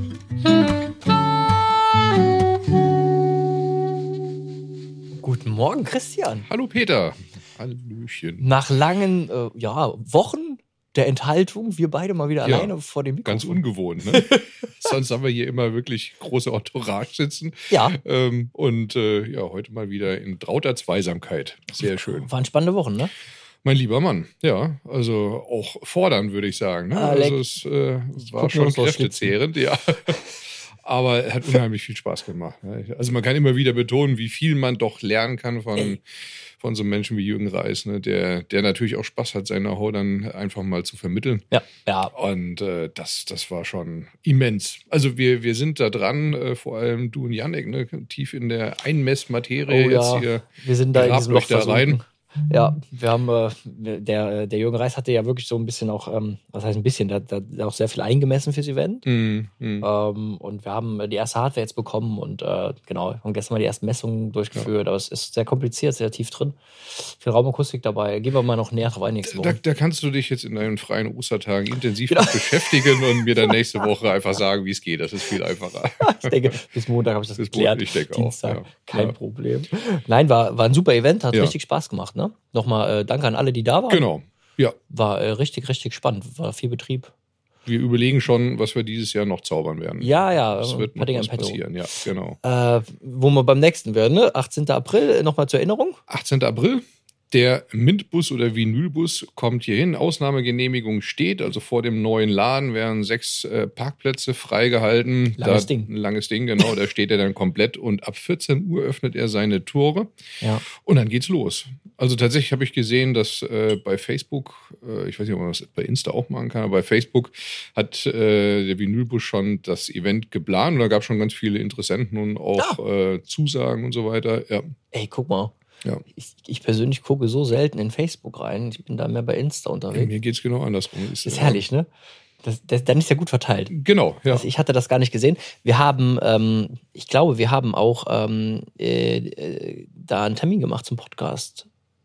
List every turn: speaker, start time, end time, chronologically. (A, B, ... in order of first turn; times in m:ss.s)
0:05.2-0:06.5 A
0:06.5-0:08.4 B
0:08.4-0:14.9 A
0:12.4-0:12.7 B
0:13.2-0:22.3 B
0:17.7-0:18.0 A
0:22.0-0:23.1 A
0:23.6-0:36.0 B
0:26.9-0:27.4 A
0:28.2-0:29.3 A
0:36.6-0:41.4 B
0:41.5-0:42.1 A
0:42.1-0:52.0 B
0:49.6-0:59.1 A
0:59.0-0:59.9 B
0:59.8-1:09.6 A
1:09.2-1:16.4 B
1:12.1-1:13.6 A
1:16.0-1:24.1 A
1:17.4-1:19.1 B
1:23.9-1:24.8 B
1:24.9-1:27.1 A
1:27.6-1:32.4 B
1:30.0-1:31.6 A
1:32.4-1:36.0 A
1:36.1-1:50.1 B
1:45.4-1:45.9 A
1:50.8-2:04.6 B
2:04.9-2:05.5 A
2:06.1-2:10.1 A
2:09.9-2:11.6 B
2:11.2-2:11.9 A
2:12.4-2:13.7 A
2:13.7-2:14.4 B
2:14.3-2:21.7 A